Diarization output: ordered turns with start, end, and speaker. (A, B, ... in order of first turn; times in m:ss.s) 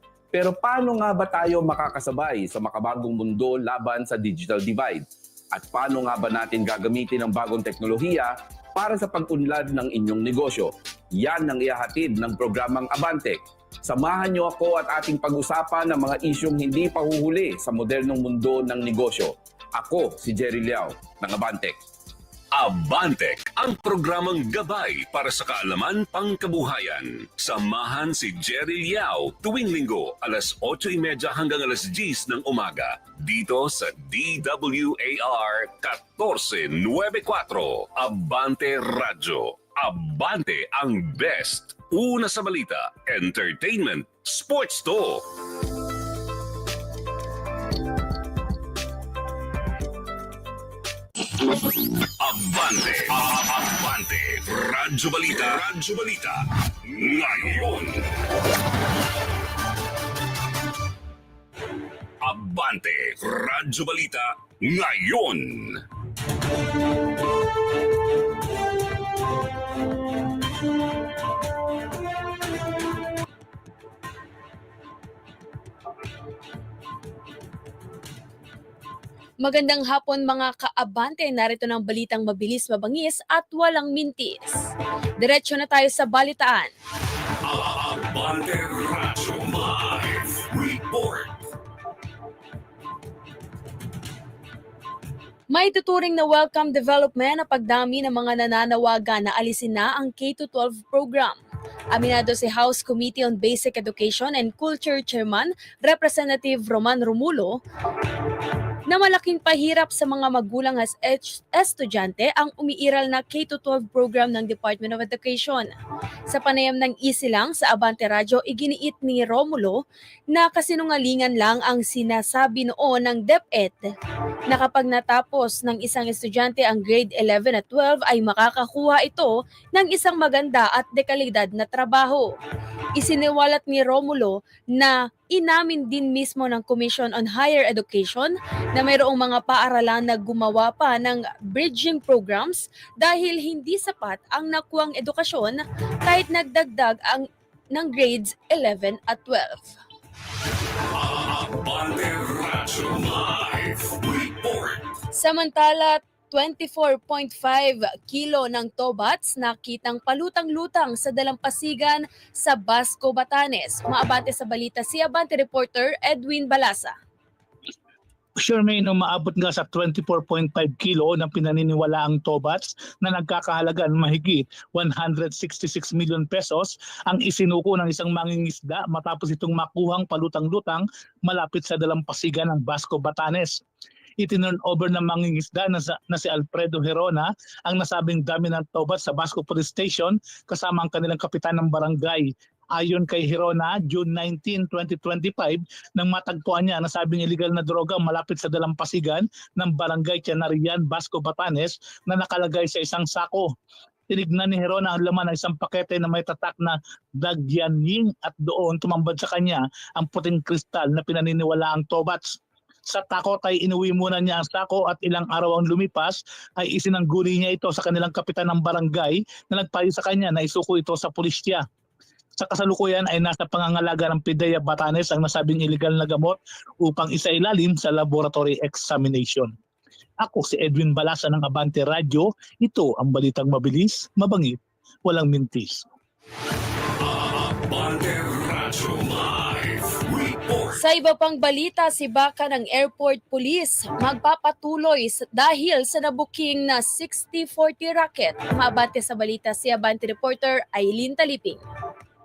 0:00.3-0:21.8 A
0:22.5-0:45.2 B
0:52.2-0:58.1 B
1:02.2-1:05.8 B
1:19.4-1:26.7 C
1:27.4-1:31.3 B
1:35.5-1:41.4 C
1:41.9-1:47.6 C
1:48.9-1:55.7 C
1:56.3-1:59.8 C
2:00.3-2:03.8 C
2:04.5-2:12.3 C
2:13.0-2:29.7 C
2:30.9-2:34.9 B
2:35.1-2:46.9 C
2:48.4-3:03.6 D
3:04.2-3:23.5 D
3:24.1-3:41.6 D
3:42.4-3:49.5 D
3:50.2-3:55.8 D
3:57.0-4:00.8 B
4:00.8-4:11.6 C